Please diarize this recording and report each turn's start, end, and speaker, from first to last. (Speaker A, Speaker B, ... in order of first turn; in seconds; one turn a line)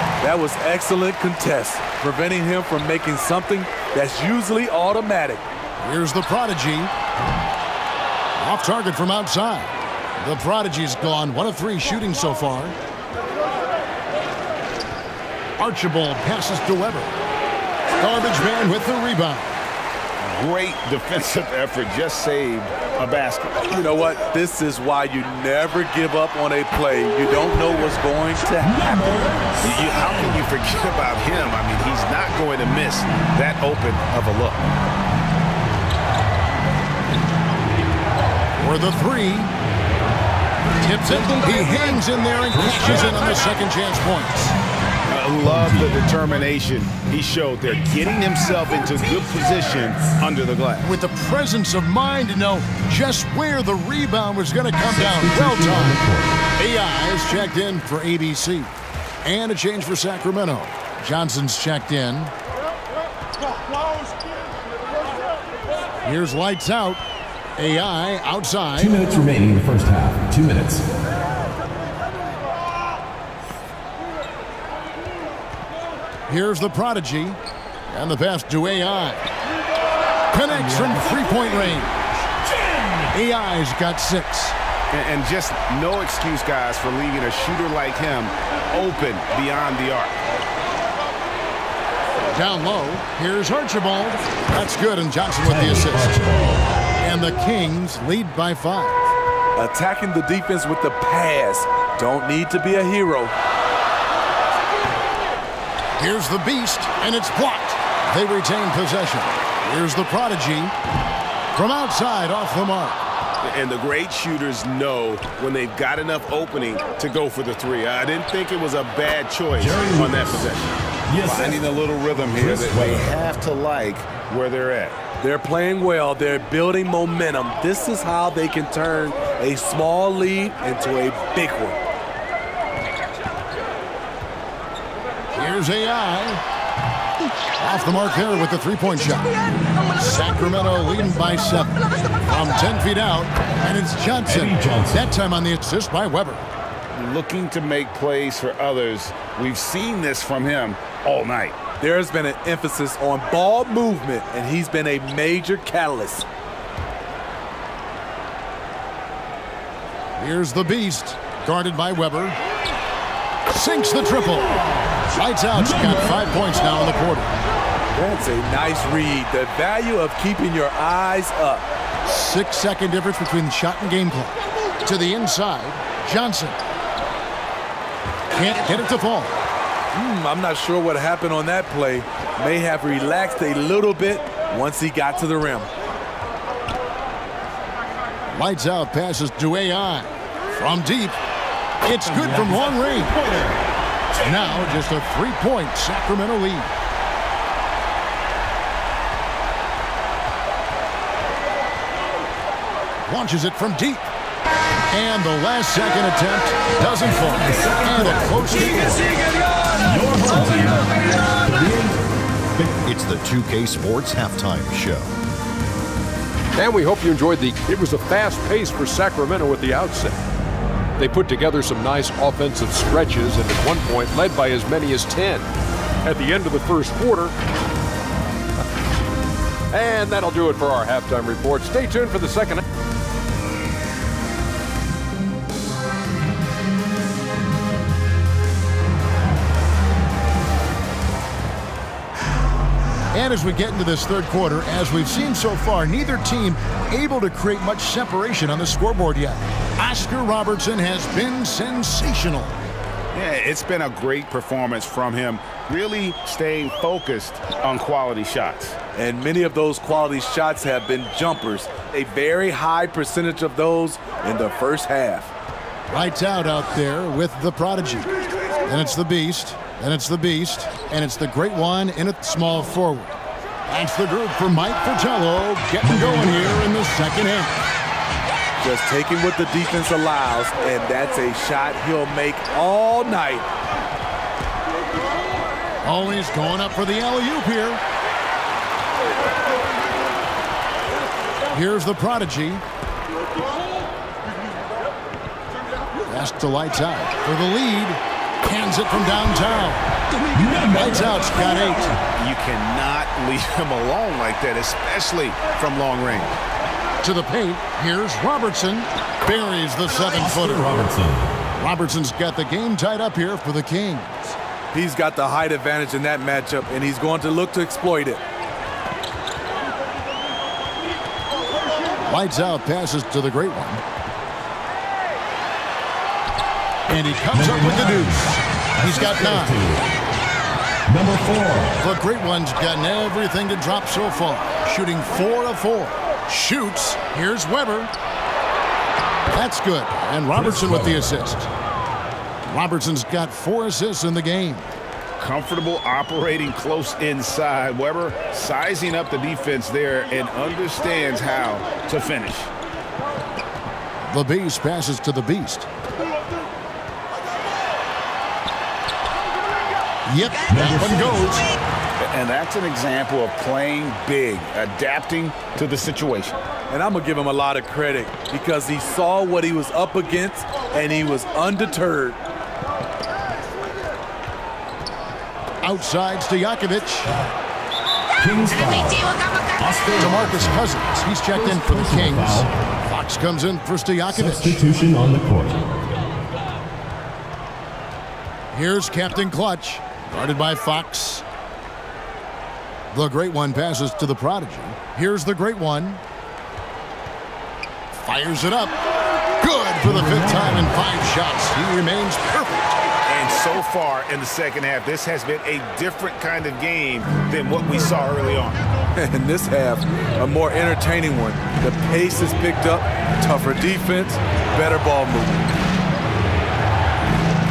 Speaker A: 0.2-5.4
Speaker B: 5.8-6.9
Speaker B: 8.4-12.8
Speaker B: 15.6-17.1
Speaker B: 18.0-19.6
Speaker C: 20.2-23.7
Speaker A: 23.7-29.2
Speaker D: 28.6-30.4
Speaker C: 29.6-34.6
Speaker B: 38.6-39.5
Speaker B: 40.8-44.6
Speaker A: 41.1-42.0
Speaker D: 42.5-43.5
Speaker C: 45.1-51.0
Speaker D: 45.4-46.1
Speaker D: 48.5-50.1
Speaker B: 50.8-56.0
Speaker D: 54.8-56.4
Speaker B: 56.6-58.7
Speaker B: 59.2-62.3
Speaker B: 66.0-67.0
Speaker B: 67.6-69.0
Speaker D: 68.8-70.8
Speaker B: 76.3-77.4
Speaker B: 77.9-79.2
Speaker B: 80.3-82.2
Speaker D: 80.5-81.5
Speaker D: 82.4-83.2
Speaker B: 83.1-84.6
Speaker C: 84.9-90.2
Speaker B: 92.3-96.2
Speaker D: 95.4-96.7
Speaker B: 97.0-99.1
Speaker A: 99.6-103.3
Speaker B: 106.0-110.8
Speaker B: 111.5-113.0
Speaker C: 113.4-125.0
Speaker D: 119.5-121.6
Speaker D: 122.2-123.2
Speaker A: 125.2-131.8
Speaker B: 135.3-136.4
Speaker B: 137.6-146.4
Speaker D: 144.3-145.1
Speaker C: 146.9-151.6
Speaker A: 151.8-156.3
Speaker B: 160.2-162.4
Speaker B: 163.5-167.3
Speaker D: 164.4-165.0
Speaker D: 165.6-166.6
Speaker A: 167.9-171.7
Speaker B: 172.1-176.6
Speaker B: 178.3-179.4
Speaker A: 179.9-185.7
Speaker B: 188.3-191.2
Speaker B: 191.8-193.2
Speaker D: 192.1-193.6
Speaker D: 194.1-194.7
Speaker B: 194.2-196.7
Speaker B: 203.1-204.1
Speaker B: 204.9-209.1
Speaker D: 206.8-209.1
Speaker D: 209.8-212.0
Speaker D: 212.5-212.8
Speaker E: 212.8-215.1
Speaker F: 216.5-220.2
Speaker F: 221.0-225.5
Speaker F: 226.0-227.3
Speaker F: 229.7-232.6
Speaker B: 243.1-252.6
Speaker C: 253.1-258.8
Speaker A: 259.0-265.3
Speaker B: 265.9-268.1
Speaker B: 268.6-273.1
Speaker B: 273.7-277.6
Speaker D: 275.8-276.6
Speaker A: 278.6-283.5
Speaker B: 285.8-287.8
Speaker B: 291.5-292.6
Speaker B: 296.1-299.9
Speaker D: 300.3-301.9
Speaker B: 300.6-302.0
Speaker C: 302.1-306.4
Speaker B: 307.0-310.9
Speaker D: 309.9-311.4
Speaker B: 311.6-314.4
Speaker A: 314.7-318.2
Speaker B: 322.0-323.8
Speaker B: 326.9-329.6
Speaker D: 327.3-329.9
Speaker D: 330.9-331.8
Speaker B: 331.8-337.9
Speaker B: 339.3-341.5
Speaker D: 340.3-341.1
Speaker B: 342.5-344.7
Speaker C: 345.2-352.5
Speaker B: 354.1-355.7
Speaker B: 360.1-361.6
Speaker D: 360.5-361.4
Speaker C: 362.0-366.4
Speaker A: 366.7-372.2
Speaker B: 375.6-377.2
Speaker D: 378.2-382.5
Speaker B: 380.0-384.6
Speaker D: 384.1-385.8
Speaker B: 388.5-391.2
Speaker B: 392.9-396.0
Speaker B: 397.9-398.8
Speaker B: 399.4-402.7
Speaker D: 399.8-400.9
Speaker C: 403.1-408.6
Speaker A: 408.9-415.5